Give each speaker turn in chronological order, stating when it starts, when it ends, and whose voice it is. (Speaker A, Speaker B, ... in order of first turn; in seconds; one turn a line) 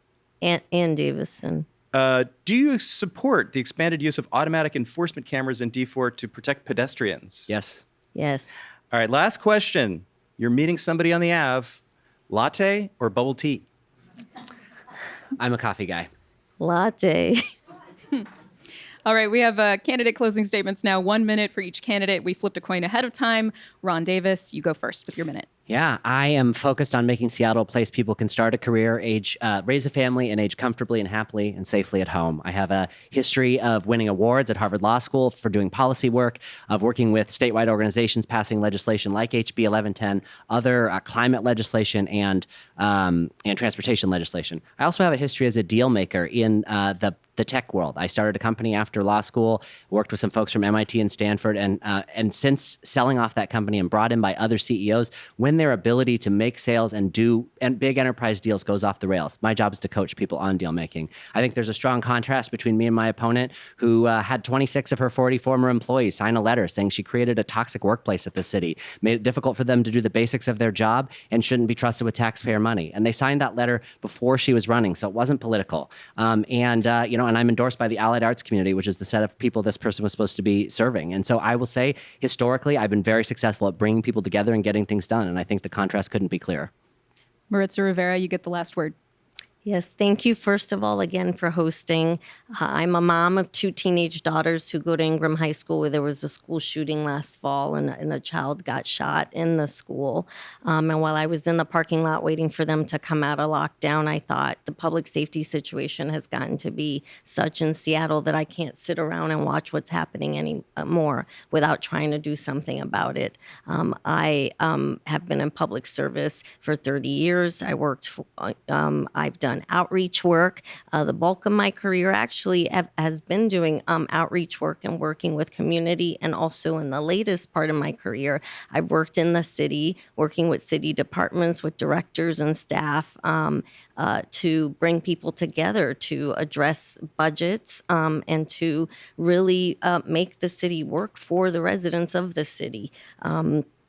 Speaker A: 0.4-1.7
Speaker B: 1.9-7.5
Speaker C: 7.5-7.8
Speaker A: 8.2-8.6
Speaker B: 8.9-13.7
Speaker C: 15.4-16.1
Speaker A: 16.6-17.4
Speaker D: 19.1-25.5
Speaker C: 25.7-86.7
Speaker D: 87.5-89.0
Speaker A: 89.6-143.7